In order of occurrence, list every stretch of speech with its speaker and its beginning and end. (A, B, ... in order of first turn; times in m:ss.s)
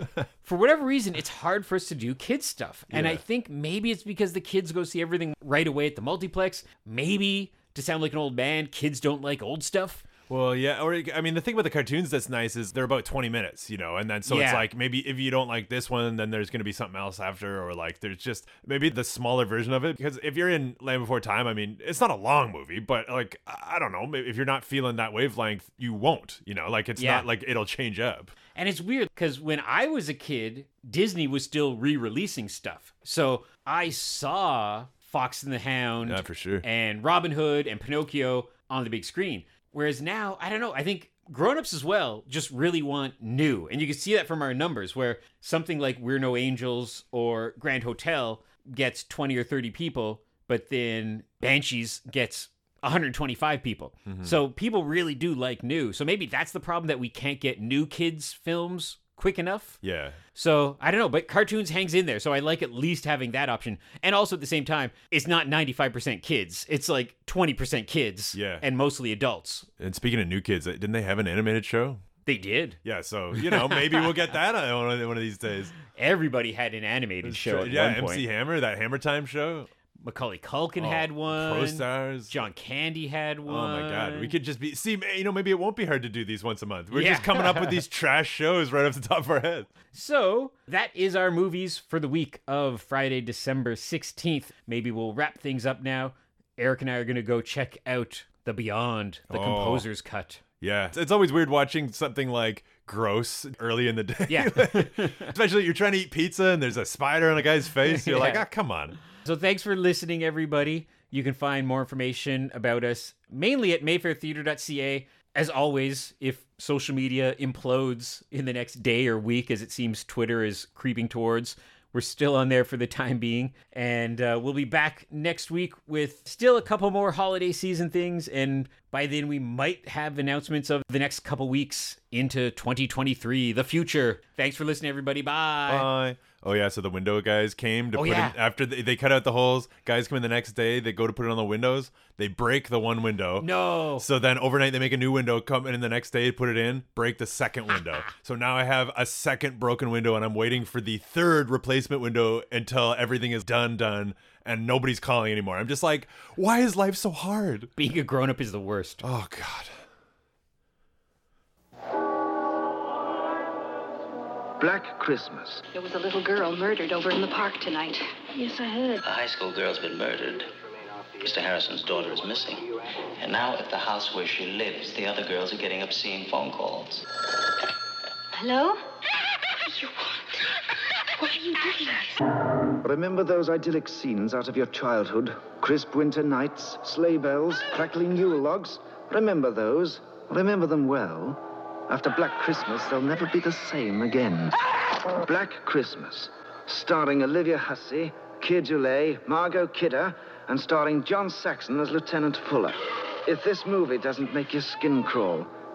0:00.4-0:10.0 A
0:02.9-0:03.2 B
0:10.3-0:28.3 B
0:14.2-0:14.6 A
0:27.0-0:27.2 A
0:28.5-0:59.8 A
0:36.0-0:36.6 B
0:54.0-0:54.3 B
0:59.8-1:00.2 B
1:00.3-1:09.7 A
1:08.3-1:08.6 B
1:09.8-1:12.0 B
1:12.2-1:12.8 A
1:12.8-1:15.7 B
1:13.3-1:14.1 A
1:15.9-1:18.2 A
1:17.2-1:19.7 B
1:20.0-1:24.3 A
1:20.8-1:22.4 B
1:23.4-1:29.7 B
1:26.9-1:27.8 A
1:29.9-1:40.4 A
1:39.3-1:39.9 B
1:40.6-1:49.0 B
1:44.3-1:45.3 A
1:47.8-1:48.4 A
1:49.1-2:15.9 A
2:15.7-2:37.7 B
2:17.9-2:18.4 A
2:23.4-2:24.0 A
2:37.8-2:39.0 A
2:39.0-2:39.8 B
2:44.6-2:45.6 C
2:45.7-2:49.0 D
2:49.0-2:50.5 E
2:51.2-2:57.0 E
2:58.3-3:00.6 D
3:01.2-3:02.2 D
3:02.8-3:25.5 C